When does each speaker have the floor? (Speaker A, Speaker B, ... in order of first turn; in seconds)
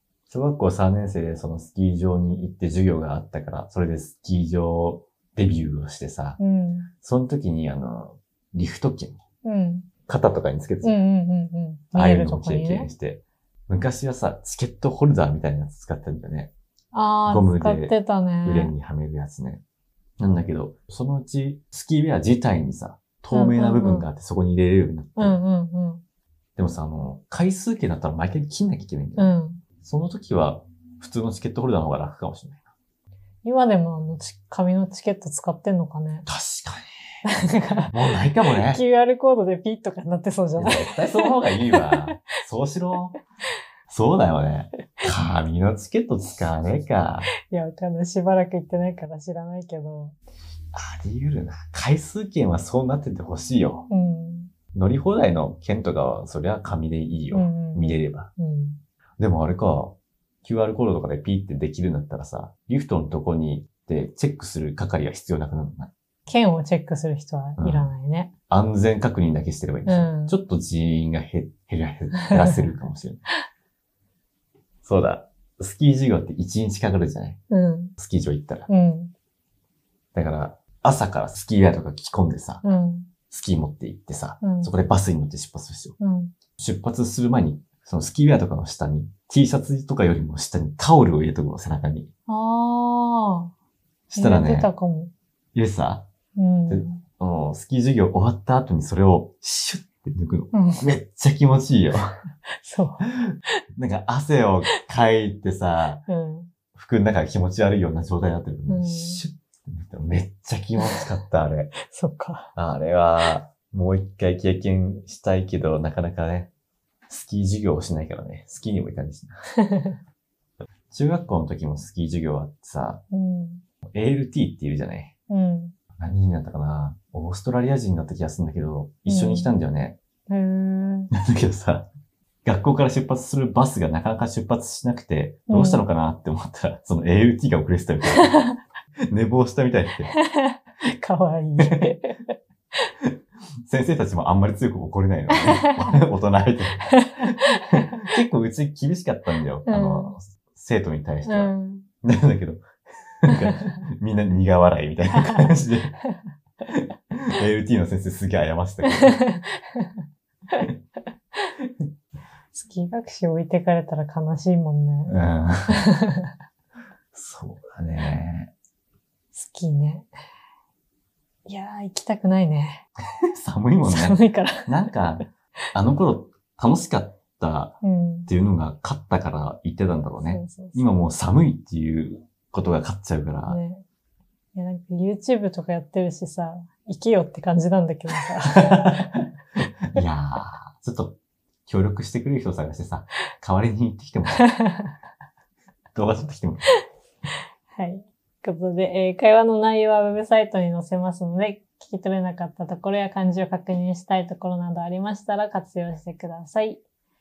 Speaker A: 0.3-6.4, 7.0-9.2, 10.1-11.0, 11.9-16.5, 17.3-19.6, 20.2-25.4, 26.6-32.6, 36.3-36.9, 37.9-38.8, 40.6-43.2, 43.9-47.3, 50.7-53.9, 54.7-58.3, 59.2-65.9, 67.6-67.9, 68.5-73.2, 74.8-77.4, 78.0-78.7, 80.1-82.6, 83.3-86.0, 86.6-92.1, 94.1-94.7, 95.5-96.1, 96.7-102.1, 103.8-106.0, 106.7-111.7, 112.6-116.5, 117.1-119.4, 120.9-123.0, 123.9-125.1, 126.0-130.0, 131.1-131.9, 132.4-138.4, 139.1-140.1, 141.6-141.9, 143.6-152.6, 153.3-155.9, 157.3-159.2, 165.1-165.9, 167.1-168.5, 173.4-183.6, 188.5-189.0, 189.9-194.4, 195.9-196.7
Speaker B: 6.4-6.9, 9.4-9.9, 10.8-12.9, 16.9-18.7, 23.3-24.1, 25.2-26.0, 29.2-29.6, 33.4-36.3, 37.2-37.9, 38.6-42.1, 47.5-50.1, 53.9-54.5, 57.3-58.8, 66.3-68.3, 69.9-70.4, 72.2-72.7, 77.5-77.9, 78.7-79.1, 82.6-83.1, 84.4-84.7, 86.0-86.3, 92.3-93.5, 94.2-95.1, 96.3-97.0, 100.5-100.9, 102.6-103.0, 106.1-106.5, 108.7-109.2, 111.8-112.5, 119.7-120.0, 123.1-123.6, 125.3-125.8, 129.1-129.5, 130.3-131.1, 135.5-135.8, 138.1-138.4, 140.1-142.3, 145.3-145.9, 146.9-147.8, 149.7-150.2, 151.3-151.9, 158.8-159.9, 162.5-165.2, 165.7-166.3, 169.3-170.1, 171.5-172.8, 173.8-174.7, 177.8-178.3, 180.2-180.9, 183.5-183.8, 184.6-189.2, 194.4-194.9, 197.7-206.8